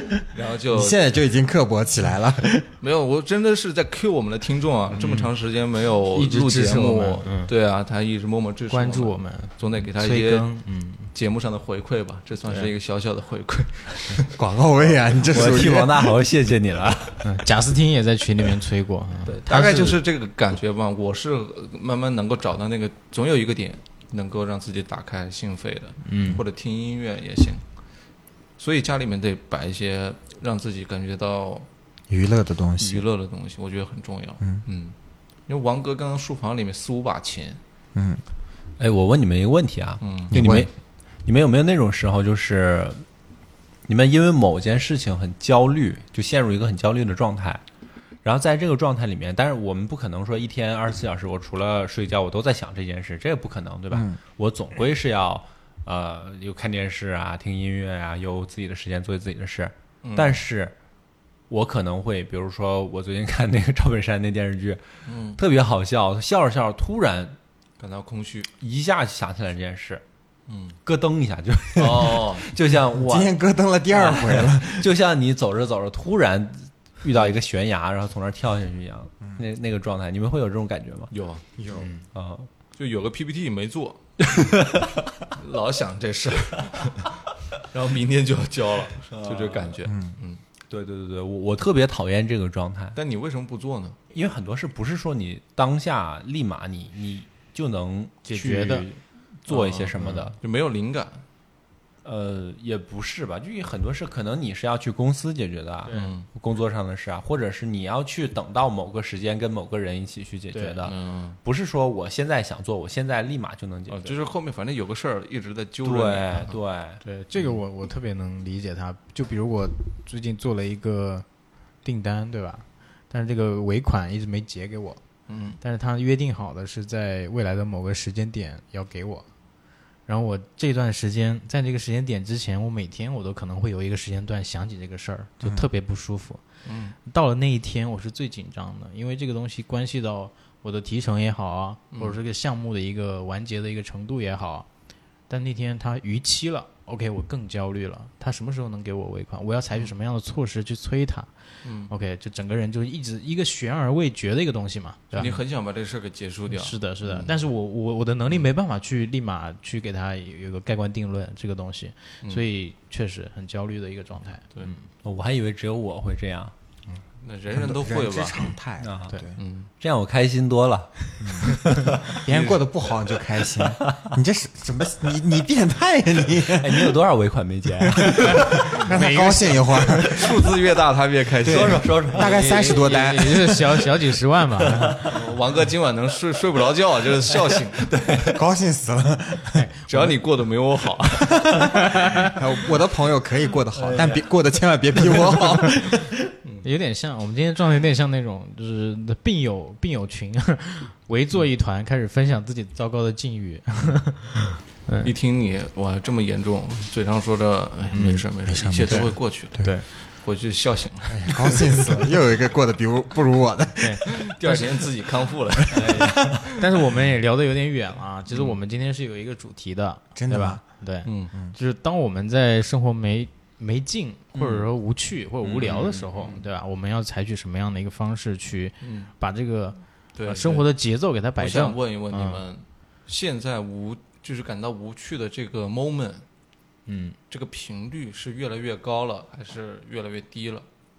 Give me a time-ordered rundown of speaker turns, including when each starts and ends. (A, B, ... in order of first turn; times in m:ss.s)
0:00.3-0:01.0 A
0:00.7-0:02.6 B
0:02.8-0:15.0 A
0:05.0-0:05.3 C
0:06.1-0:07.5 C
0:08.7-0:11.1 C
0:12.4-0:12.7 C
0:14.3-0:16.2 B
0:15.3-0:17.3 D
0:17.2-0:19.9 C
0:19.3-0:31.7 A
0:19.5-0:20.0 B
0:26.0-0:26.4 C
0:32.1-0:33.0 B
0:32.8-0:37.6 A
0:38.0-0:38.2 B
0:38.8-0:43.2 D
0:40.0-0:40.3 A
0:40.3-0:40.7 B
0:43.8-0:47.6 D
0:48.2-1:00.7 D
0:53.9-0:54.2 B
1:00.0-1:00.4 A
1:01.5-1:07.4 D
1:05.1-1:05.4 A
1:07.8-1:08.5 A
1:08.6-1:10.0 D
1:10.5-1:10.8 A
1:10.8-1:13.4 D
1:11.8-1:12.5 A
1:13.0-1:14.8 B
1:13.9-1:21.1 D
1:21.1-1:21.4 A
1:21.6-1:21.9 B
1:21.8-1:22.0 C
1:22.1-1:22.5 D
1:22.7-1:24.3 A
1:25.4-1:30.4 A
1:29.1-1:29.8 D
1:29.9-1:30.2 B
1:30.7-1:33.0 D
1:33.0-1:34.0 A
1:34.1-1:40.4 D
1:38.2-1:38.9 C
1:39.3-1:41.3 A
1:42.0-1:54.2 D
1:45.8-1:46.1 C
1:45.9-1:46.3 A
1:50.5-1:50.8 C
1:50.8-1:51.4 A
1:53.9-1:56.6 A
1:55.8-1:57.0 D
1:57.0-2:35.4 C
2:05.3-2:05.6 A
2:15.4-2:15.7 B
2:16.6-2:17.0 A
2:21.9-2:22.2 A
2:31.6-2:31.9 A
2:35.1-2:37.4 A
2:36.5-2:44.9 C
2:45.0-2:46.5 D
2:47.2-2:48.4 A
2:47.5-2:49.4 B
2:48.8-2:49.2 D
2:49.4-2:49.7 A
2:49.8-2:51.8 D
2:51.2-2:51.7 B
2:52.2-2:57.0 B
2:52.3-2:52.7 A
2:56.5-2:58.2 D
2:58.1-3:00.4 B
2:58.8-2:59.6 C
3:00.0-3:02.7 A
3:01.4-3:03.6 B
3:01.4-3:03.7 D
3:02.4-3:05.0 C
3:04.6-3:05.1 D
3:05.1-3:07.9 A
3:07.8-3:08.4 D
3:08.3-3:09.6 B
3:09.5-3:10.2 C
3:09.9-3:11.6 A
3:11.4-3:11.6 B
3:12.3-3:16.1 B
3:13.8-3:14.6 D
3:16.6-3:25.1 C
3:25.0-3:31.6 A
3:27.9-3:28.3 C
3:28.4-3:29.7 B
3:28.9-3:29.9 C
3:31.1-3:34.6 B
3:33.8-3:34.6 C
3:34.2-3:36.3 A
3:35.7-3:36.1 B
3:35.7-3:36.3 D
3:36.6-3:52.4 C
3:38.3-3:38.6 A
3:40.2-3:41.6 B
3:41.0-3:41.3 A
3:44.4-3:44.6 D
3:45.4-3:46.5 A
3:45.6-3:46.1 D
3:48.8-3:49.1 A
3:50.1-3:56.3 A
3:56.9-3:57.2 C
3:57.3-4:00.7 A